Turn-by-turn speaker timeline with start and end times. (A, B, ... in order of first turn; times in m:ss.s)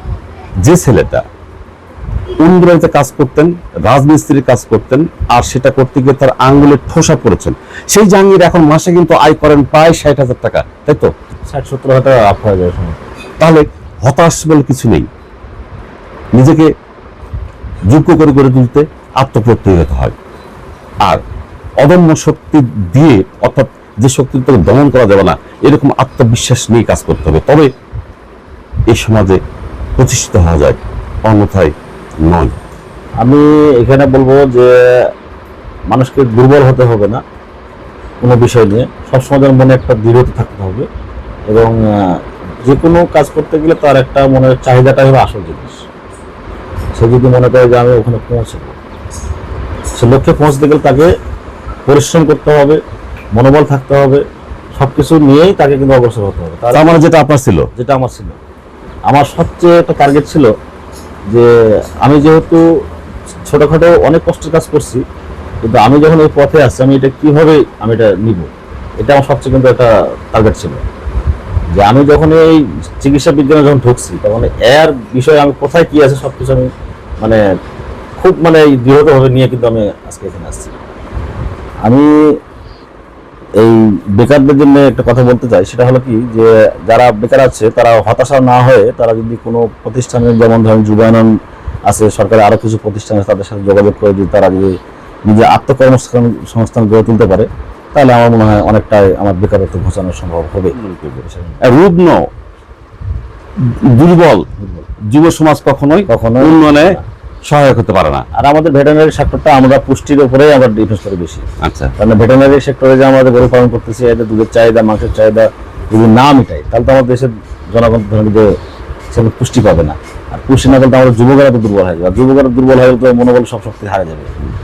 0:00.6-0:01.2 A
0:02.4-0:11.1 A
0:11.5-0:13.1 B
0:13.4-0:15.1 A
0:16.3-0:16.7 A
0:17.9-0:20.1 A
0:21.8-0:27.7 A
0:28.9-0:29.4 A
0:30.0-0:31.7 A
0:32.2-0:32.5 A
0:33.2-0:35.1 B
0:35.9-0:37.2 B
0:38.2-0:40.9 B
0:41.5-0:45.8 B
0:47.0-0:48.8 B
0:50.0-0:51.1 B
0:51.9-0:52.8 B
0:53.4-0:54.2 B
0:54.8-0:57.0 B
0:56.7-0:57.7 A
0:57.8-0:58.4 B
0:59.1-1:00.5 B
1:02.0-1:02.6 B
1:03.5-1:05.0 B
1:05.6-1:10.8 B
1:11.8-1:17.4 B
1:18.2-1:20.7 B
1:21.8-1:22.4 B
1:23.6-1:31.3 B
1:31.9-1:41.6 B
1:40.8-1:42.2 A
1:43.7-1:44.5 A
1:44.6-1:44.8 B
1:45.0-1:48.2 A
1:46.1-1:47.1 B
1:48.3-1:51.4 B
1:51.6-1:51.9 A
1:52.0-1:58.5 B
1:59.1-2:04.3 B